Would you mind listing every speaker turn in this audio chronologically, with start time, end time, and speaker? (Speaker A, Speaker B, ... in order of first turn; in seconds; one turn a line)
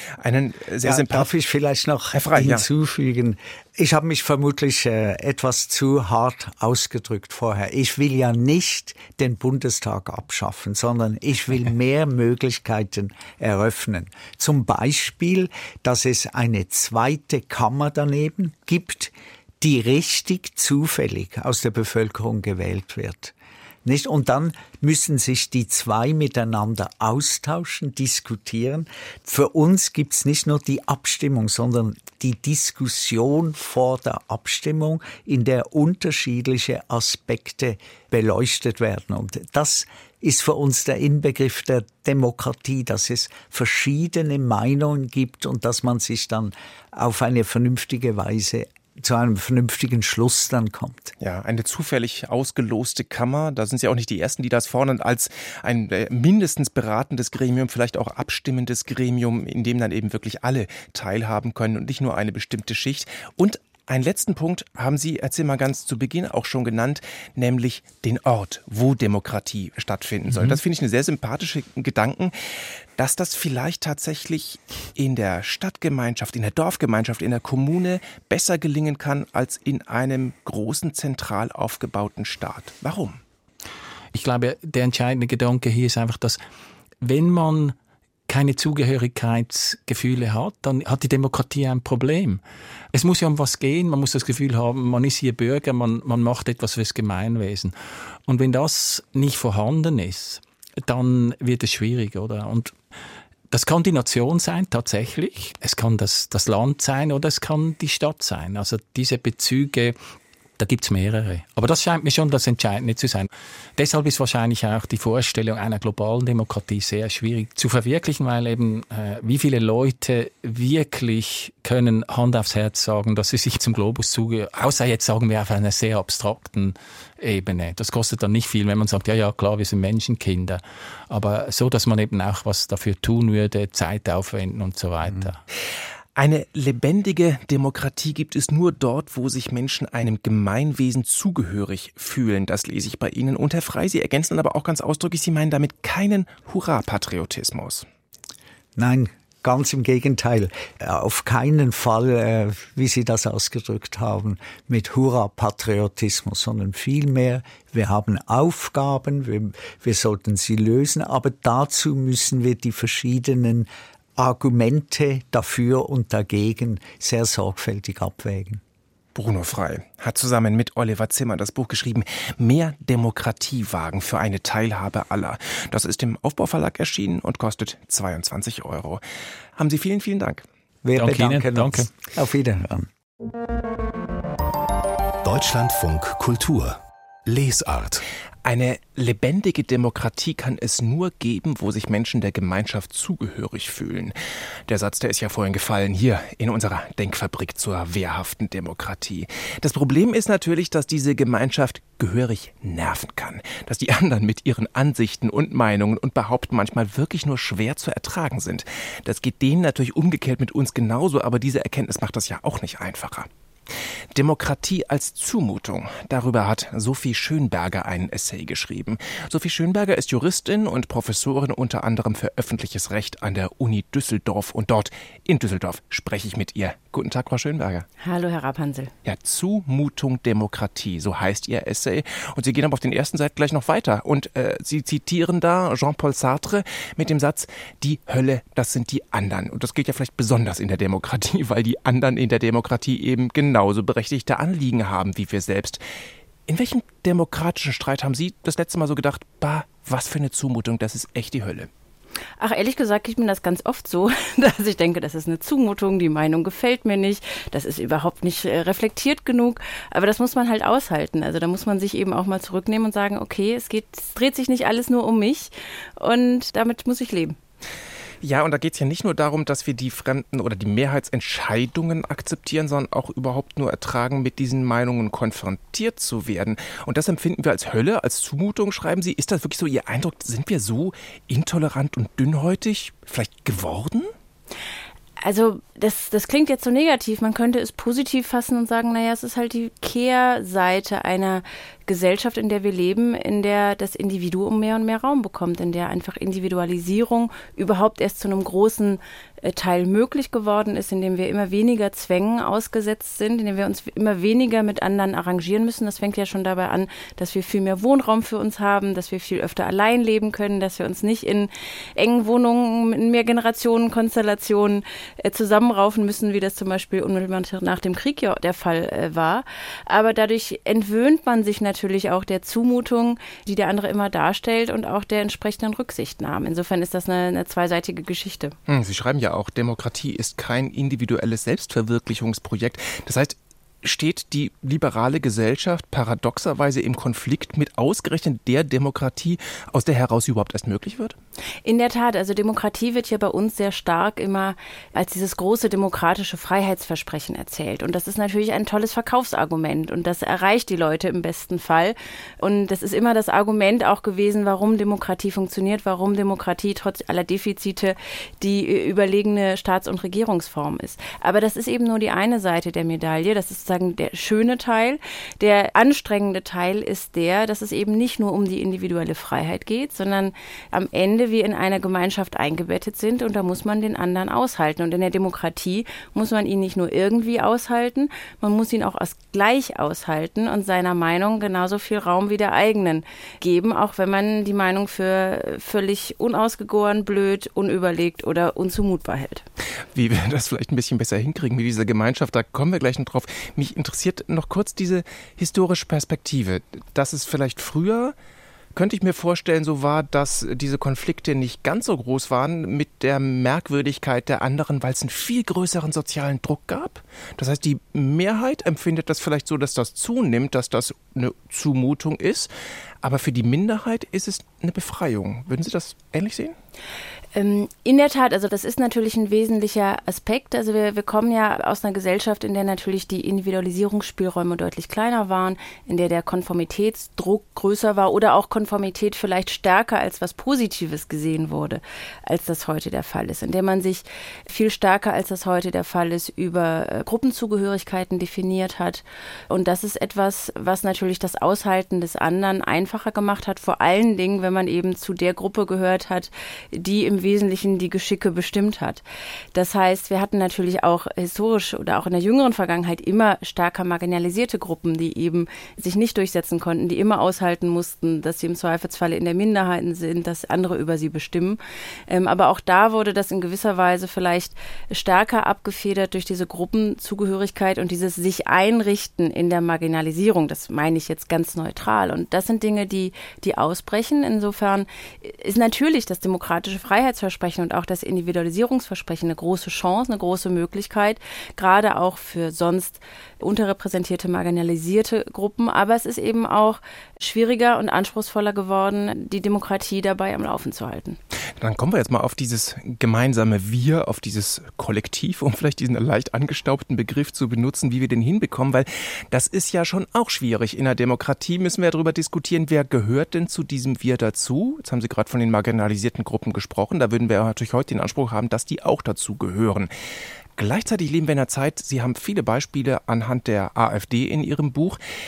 Speaker A: 0.2-1.3
Speaker B: 0.8-51.1
Speaker A: 2.1-2.7
Speaker A: 51.2-72.3
Speaker A: 73.0-83.2
Speaker C: 84.1-86.4
Speaker C: 87.0-87.8
Speaker C: 88.3-92.4
Speaker C: 92.9-97.7
Speaker C: 98.3-102.7
Speaker C: 103.5-110.0
Speaker C: 110.6-135.4
Speaker A: 136.2-147.9
Speaker B: 148.8-168.6
Speaker A: 169.2-179.0
Speaker A: 179.6-180.4
Speaker B: 180.8-182.9
Speaker C: 181.0-181.9
Speaker D: 185.2-188.0
Speaker A: 188.4-194.2
Speaker A: 194.7-213.3
Speaker A: 214.2-227.9
Speaker E: 228.0-228.9
Speaker A: 229.1-245.8
Speaker A: 246.5-251.7
Speaker E: 252.4-267.4
Speaker A: 268.2-284.1
Speaker E: 285.2-328.6
Speaker A: 328.7-341.2
Speaker E: 341.6-389.4
Speaker A: 389.9-398.1
Speaker A: 398.8-412.5
Speaker A: 413.0-416.6
Speaker E: 417.4-449.0
Speaker E: 449.5-491.2
Speaker A: 491.6-509.9
Speaker A: 510.6-515.0